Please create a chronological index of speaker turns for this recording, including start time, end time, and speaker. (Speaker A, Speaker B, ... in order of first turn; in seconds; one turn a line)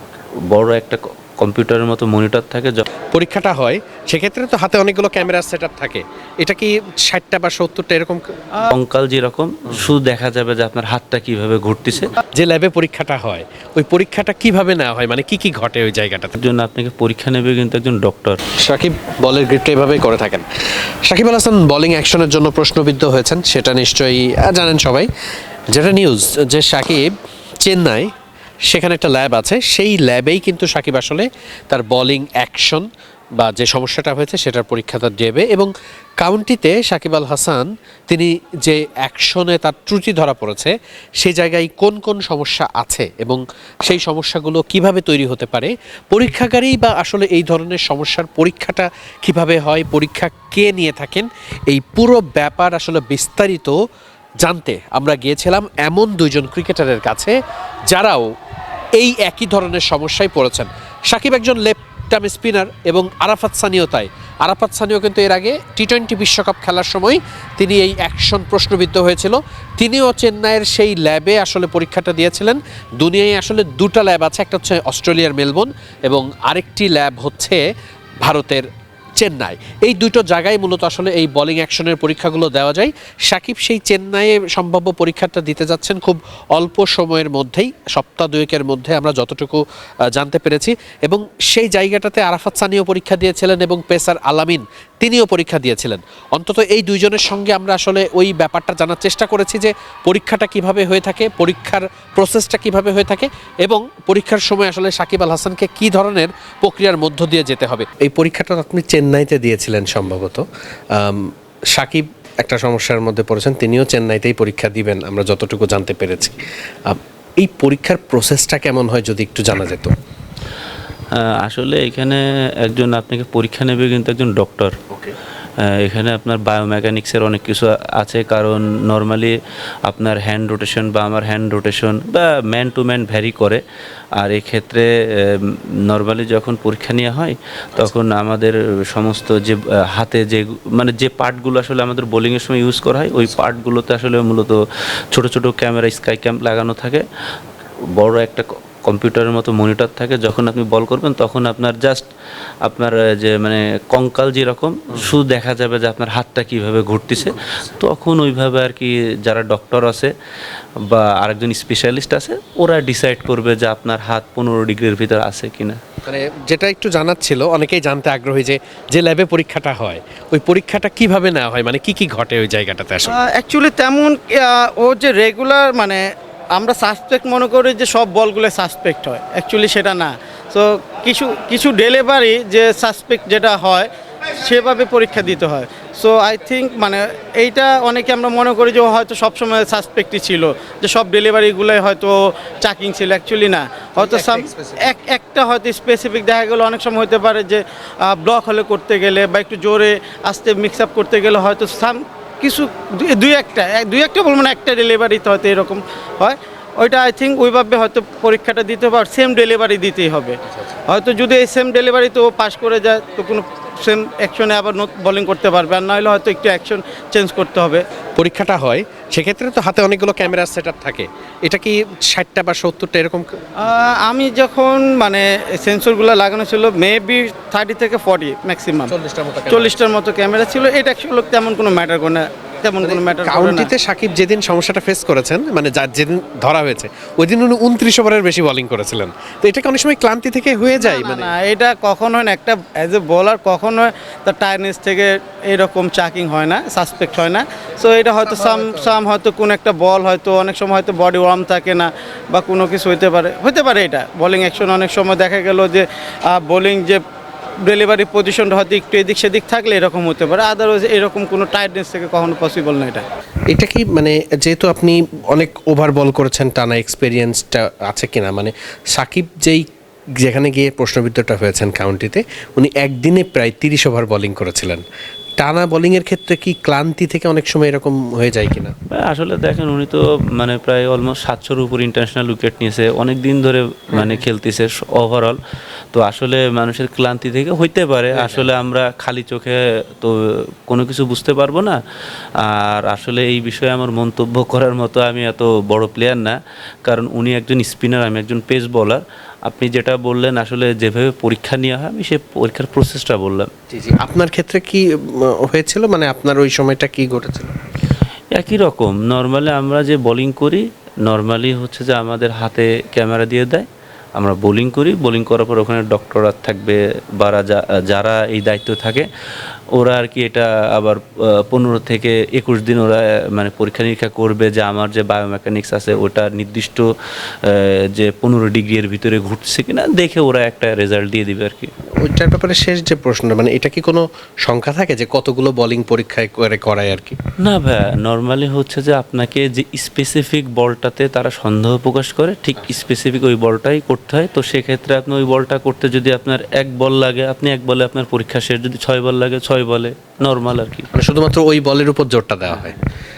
Speaker A: 0.5-2.9
Speaker B: 3.1-8.3
Speaker A: 8.6-12.1
Speaker B: 12.3-16.4
Speaker A: 16.4-18.4
Speaker B: 18.6-20.4
Speaker B: 21.1-25.1
Speaker B: 25.7-27.1
Speaker B: 27.6-28.1
Speaker B: 28.7-32.9
Speaker B: 33.4-53.7
Speaker B: 54.4-57.3
Speaker B: 57.9-58.3
Speaker B: 59.0-77.6
Speaker B: 78.2-78.7
Speaker B: 79.2-110.4
Speaker B: 111.0-119.9
Speaker A: 121.1-124.8
Speaker A: 125.6-133.6
Speaker A: 134.2-144.6
Speaker A: 145.1-147.0
Speaker A: 147.9-152.0
Speaker A: 152.6-160.1
Speaker B: 157.2-157.6
Speaker A: 160.8-165.8
Speaker B: 166.1-173.1
Speaker C: 173.1-183.9
Speaker C: 184.4-217.8
Speaker B: 194.0-194.9
Speaker B: 218.2-223.2
Speaker C: 223.6-228.9
Speaker B: 228.9-229.8
Speaker C: 229.5-233.7
Speaker B: 232.8-241.3
Speaker C: 240.8-257.0
Speaker B: 248.3-248.9
Speaker C: 257.6-263.0
Speaker B: 263.5-269.6
Speaker B: 270.2-274.8
Speaker B: 275.4-278.7
Speaker A: 278.9-285.4
Speaker A: 285.9-291.8
Speaker B: 288.1-288.5
Speaker A: 292.4-303.5
Speaker B: 303.7-307.6
Speaker A: 308.3-319.1
Speaker A: 319.7-326.9
Speaker A: 327.4-331.7
Speaker B: 332.0-337.2
Speaker A: 337.4-350.9
Speaker B: 350.9-352.8